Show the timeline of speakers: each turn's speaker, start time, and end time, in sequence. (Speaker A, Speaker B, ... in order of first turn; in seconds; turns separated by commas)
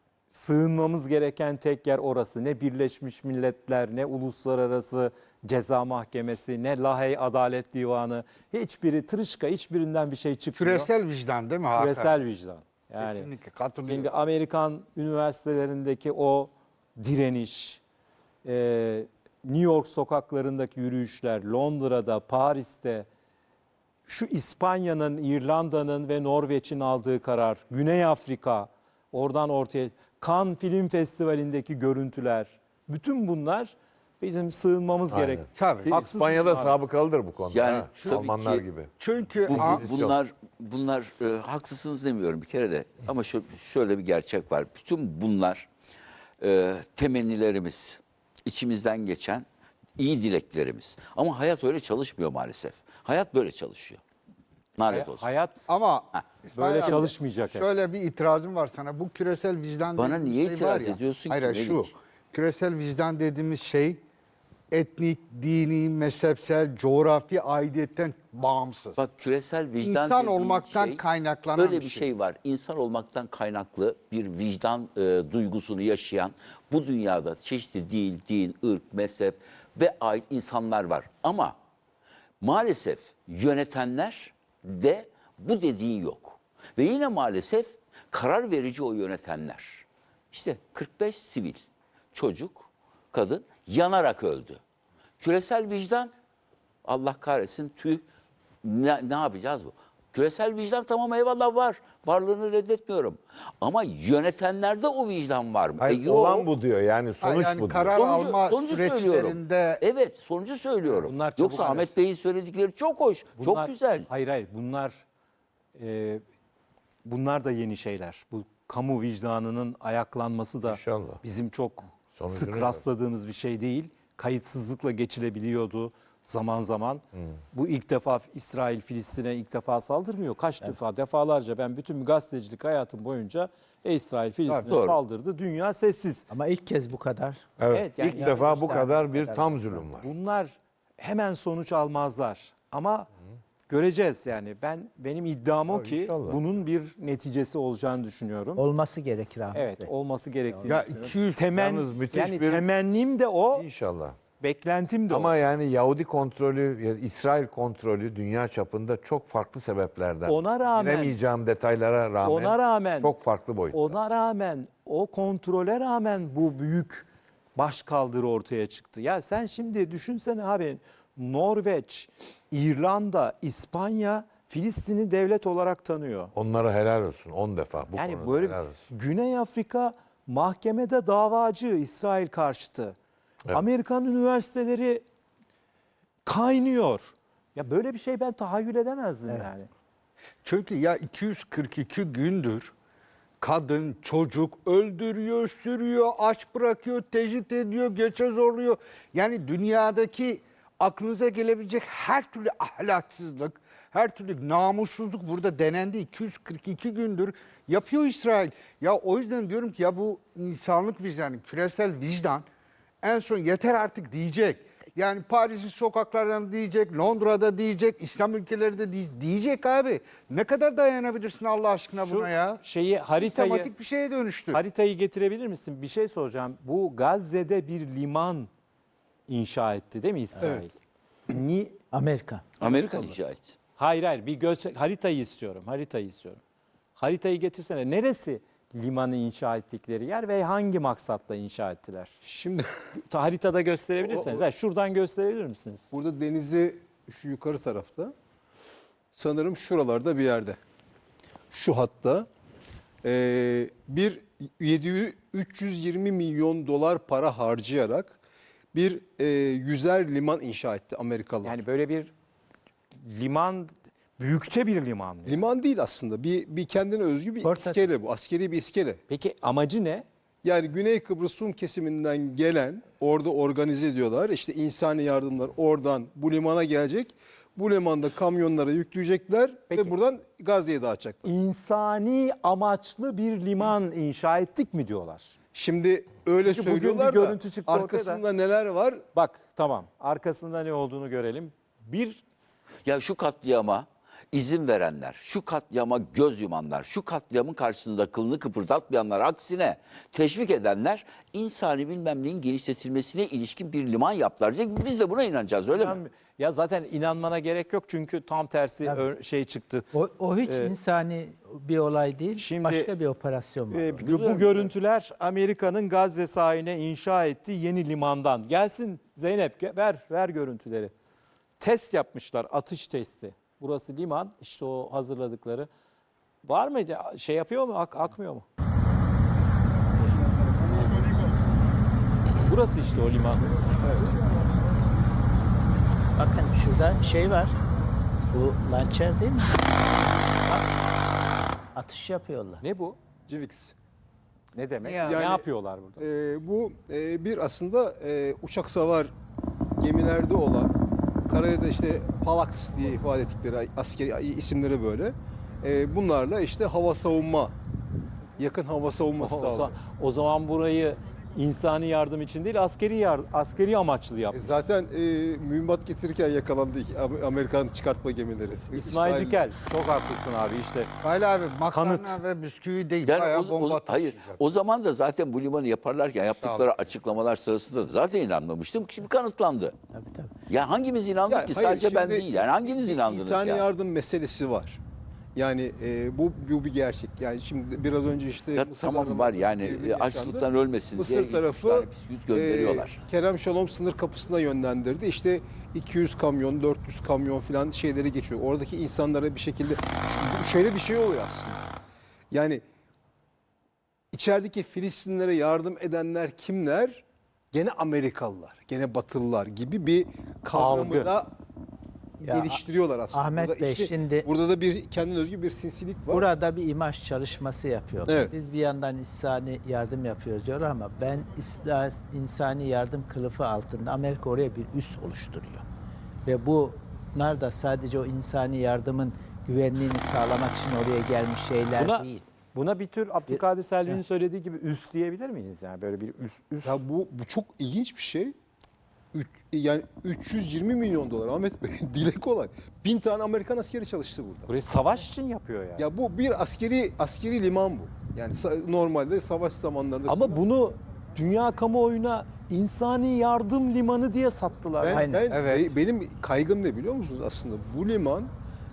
Speaker A: 0.3-10.9, Speaker B: 10.6-12.1, Speaker A: 11.7-13.3, Speaker B: 13.0-14.1, Speaker A: 13.9-17.8, Speaker A: 18.4-23.1, Speaker A: 24.1-36.8, Speaker C: 35.1-38.9, Speaker B: 35.5-36.0, Speaker D: 37.5-38.6, Speaker B: 38.0-38.3, Speaker B: 39.0-39.8, Speaker C: 39.5-40.1, Speaker D: 39.5-45.7, Speaker D: 46.4-49.5, Speaker D: 50.0-54.0, Speaker D: 54.8-55.3, Speaker A: 54.9-55.6, Speaker B: 55.7-64.0, Speaker A: 56.5-57.7, Speaker D: 60.0-61.9, Speaker B: 64.7-69.0, Speaker D: 69.0-71.0, Speaker B: 69.8-72.1, Speaker D: 71.5-81.6, Speaker D: 82.4-91.6, Speaker D: 92.1-94.6, Speaker D: 95.2-96.1, Speaker D: 96.8-98.0, Speaker D: 98.6-106.5, Speaker B: 105.8-106.1, Speaker C: 105.9-108.0, Speaker B: 107.2-109.8, Speaker D: 107.9-114.1, Speaker A: 111.0-111.9, Speaker A: 113.4-115.0, Speaker A: 115.7-116.2, Speaker A: 117.0-136.2, Speaker C: 120.7-121.2, Speaker C: 122.1-122.8, Speaker D: 134.7-135.0, Speaker E: 136.3-137.4, Speaker C: 137.6-140.1, Speaker A: 137.7-138.3, Speaker E: 138.1-139.8, Speaker A: 140.0-143.1, Speaker A: 143.7-148.6, Speaker C: 145.7-146.4, Speaker E: 148.6-149.9, Speaker A: 149.5-153.7, Speaker B: 150.6-151.4, Speaker C: 151.5-152.7, Speaker C: 153.5-154.2, Speaker A: 154.4-155.3, Speaker C: 155.1-163.9, Speaker A: 160.2-161.2, Speaker A: 162.2-163.2, Speaker A: 163.7-176.3, Speaker C: 176.3-178.9, Speaker A: 177.9-182.9, Speaker A: 183.5-185.0, Speaker A: 186.2-189.7, Speaker B: 190.4-192.7, Speaker B: 193.4-212.4, Speaker B: 213.0-222.6, Speaker A: 221.9-223.7, Speaker B: 223.1-224.6, Speaker A: 224.5-228.5, Speaker A: 229.3-230.7, Speaker F: 230.4-230.7, Speaker A: 231.3-231.8, Speaker E: 231.9-232.4, Speaker D: 232.6-233.5, Speaker F: 232.6-233.2, Speaker A: 233.8-236.4, Speaker A: 236.9-242.1, Speaker F: 242.2-242.7, Speaker A: 243.1-245.9, Speaker F: 244.0-244.4, Speaker F: 245.9-248.1, Speaker F: 249.1-250.6, Speaker F: 251.5-252.3, Speaker F: 253.0-258.2, Speaker F: 258.7-261.6, Speaker A: 261.4-262.1, Speaker A: 263.0-265.4, Speaker F: 265.2-269.0, Speaker E: 267.4-267.9, Speaker A: 269.1-270.1, Speaker F: 270.4-281.3, Speaker A: 279.7-279.9, Speaker A: 281.2-285.3, Speaker F: 285.5-289.0, Speaker A: 286.4-288.2, Speaker A: 289.1-292.2, Speaker D: 292.8-306.0, Speaker A: 305.7-309.9, Speaker E: 309.9-314.2, Speaker A: 310.4-310.7, Speaker A: 312.4-312.9, Speaker A: 313.7-320.9, Speaker D: 314.0-314.7, Speaker A: 321.6-325.7, Speaker A: 326.4-328.4, Speaker E: 329.9-330.2, Speaker A: 332.4-333.8, Speaker F: 333.8-334.1, Speaker E: 336.2-337.6, Speaker E: 338.3-339.6, Speaker E: 341.7-342.6, Speaker A: 342.6-343.0, Speaker F: 343.3-343.7, Speaker A: 344.5-346.0, Speaker B: 344.9-345.3, Speaker F: 344.9-345.4, Speaker F: 346.0-349.1, Speaker F: 349.8-350.7, Speaker F: 351.2-357.5, Speaker F: 358.4-359.8, Speaker A: 359.2-364.4, Speaker F: 364.3-369.4, Speaker A: 368.7-370.9, Speaker B: 371.0-374.4, Speaker A: 371.7-372.2, Speaker D: 373.0-379.7, Speaker B: 376.4-376.8, Speaker E: 379.9-380.3, Speaker D: 380.5-383.6, Speaker F: 381.3-384.8, Speaker F: 385.3-401.6, Speaker D: 388.5-393.0, Speaker F: 402.3-402.6, Speaker F: 404.1-411.3, Speaker A: 410.5-411.1, Speaker E: 412.2-412.6, Speaker F: 412.2-416.3, Speaker E: 413.1-414.3, Speaker E: 416.1-425.6, Speaker F: 418.1-418.3, Speaker E: 426.2-432.2, Speaker A: 431.8-436.8, Speaker E: 433.3-434.0, Speaker F: 436.6-438.4, Speaker F: 439.1-444.5, Speaker A: 444.5-445.9, Speaker F: 445.8-450.4, Speaker A: 450.1-455.0, Speaker F: 454.8-458.3, Speaker E: 454.9-455.2, Speaker B: 455.3-455.8